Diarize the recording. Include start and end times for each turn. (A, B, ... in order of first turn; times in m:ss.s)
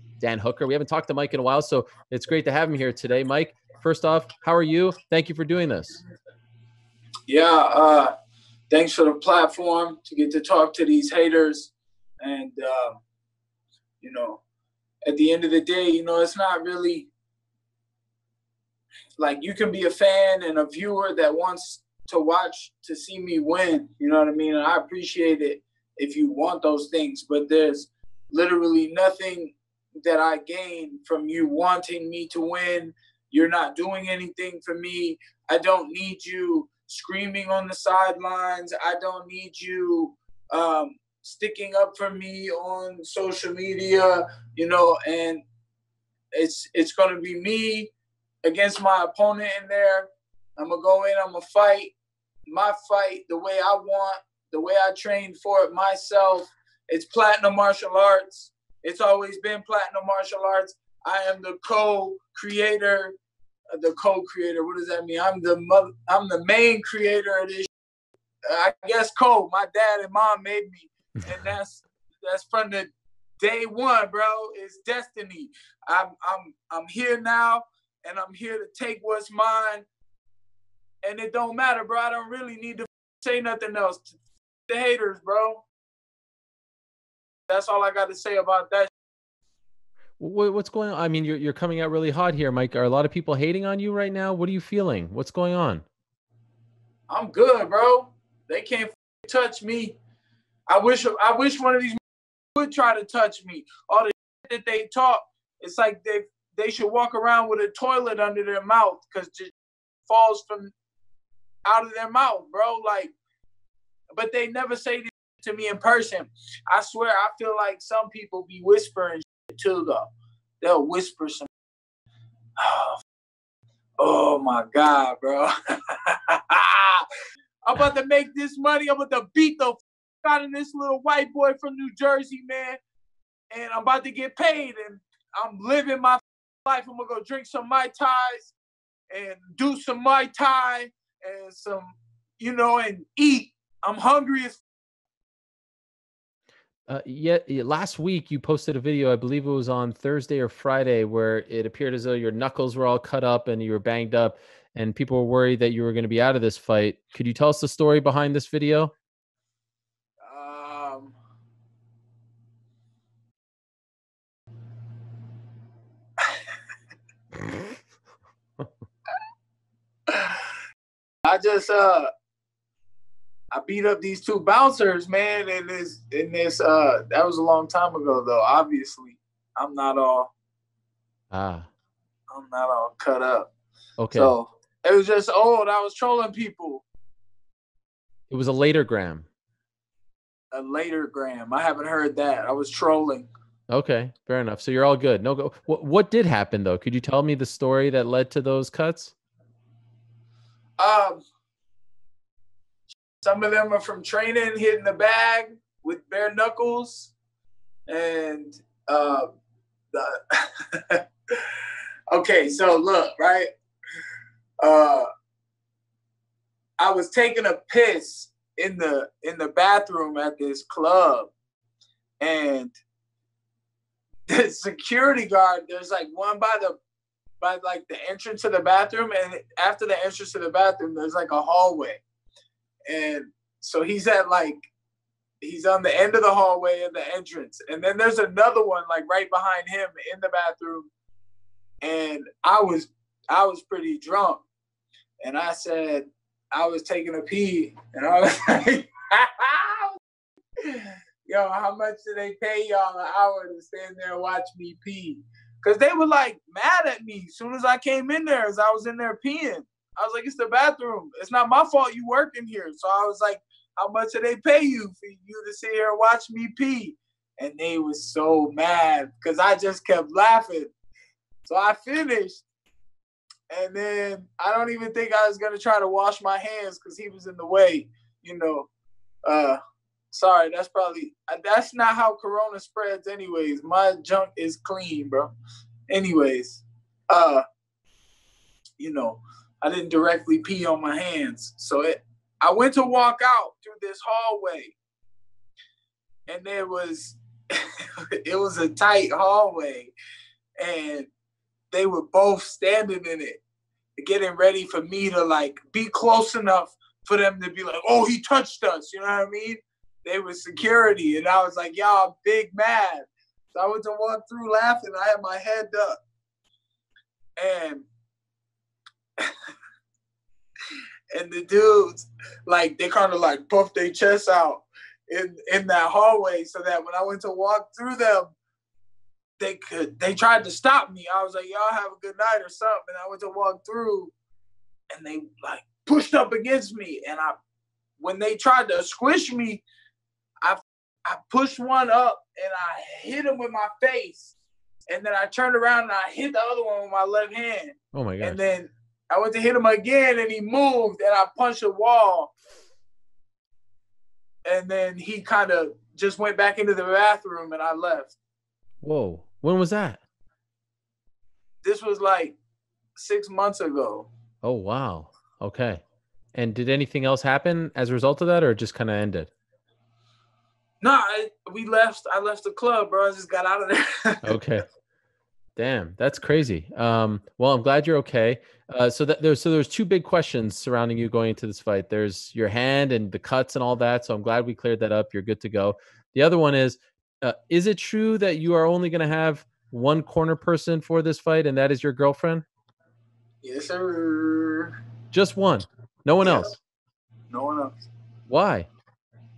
0:00.2-0:06.0 A
0:07.3-0:08.1 B
0:08.7-0:13.0 B
0:14.0-0:14.4 B
0:15.0-0:17.1 B
0:19.2-0:45.4 B
0:46.3-0:47.9 B
0:48.4-0:51.9 B
0:52.5-1:03.1 B
1:03.7-1:07.7 B
1:08.5-1:12.9 B
1:13.4-1:19.8 B
1:21.0-1:25.6 B
1:27.5-1:28.9 B
1:30.2-1:35.8 A
1:37.1-1:40.0 B
1:40.7-1:42.0 B
1:42.6-1:49.5 B
1:50.1-1:50.7 B
1:51.6-1:53.1 B
1:54.1-2:01.5 B
2:02.6-2:03.0 B
2:04.0-2:05.5 B
2:06.1-2:07.1 B
2:07.6-2:12.8 B
2:13.5-2:18.5 B
2:19.1-2:24.6 B
2:26.9-2:38.9 A
2:40.2-2:41.2 B
2:50.1-2:50.4 B
2:51.2-2:52.1 B
2:53.5-3:00.3 B
3:01.3-3:01.7 A
3:02.3-3:03.5 B
3:04.0-3:04.3 A
3:04.1-3:06.8 B
3:08.3-3:09.2 A
3:10.5-3:13.3 B
3:13.7-3:19.1 A
3:20.8-3:21.2 B
3:23.2-3:27.1 B
3:27.9-3:29.3 B
3:29.9-3:31.0 B
3:32.1-3:33.5 B
3:34.6-3:35.1 B
3:36.8-3:41.3 B
3:42.2-3:42.8 B
3:44.3-3:46.8 B
3:47.4-3:52.0 B
3:52.9-3:54.6 B
3:55.4-4:00.9 B
4:01.8-4:04.4 B
4:05.2-4:10.0 B
4:10.6-4:30.7 B
4:31.5-4:32.4 B
4:33.5-4:38.7 B
4:39.2-4:39.6 B
4:40.1-4:45.3 B
4:45.9-4:47.4 B
4:48.8-4:54.8 B
4:56.3-4:57.6 B
4:58.2-4:59.9 B
5:00.6-5:01.1 B
5:01.7-5:03.4 B
5:04.0-5:16.0 B
5:17.4-5:17.9 B
5:21.1-5:28.3 B
5:29.4-5:34.1 B
5:34.9-5:37.4 B
5:38.0-5:39.6 B
5:40.4-5:44.3 B
5:44.9-5:52.3 B
5:47.9-5:48.4 A
5:54.5-5:58.1 B
5:58.8-6:00.0 A
6:01.6-6:02.4 B
6:03.0-6:04.1 B
6:04.4-6:05.8 A
6:06.3-6:09.3 A
6:10.8-6:14.3 B
6:14.2-6:14.6 A
6:15.6-6:32.4 A
6:33.4-6:34.8 B
6:35.1-6:36.6 A
6:36.2-6:36.5 B
6:37.3-6:37.7 B
6:38.3-6:38.7 A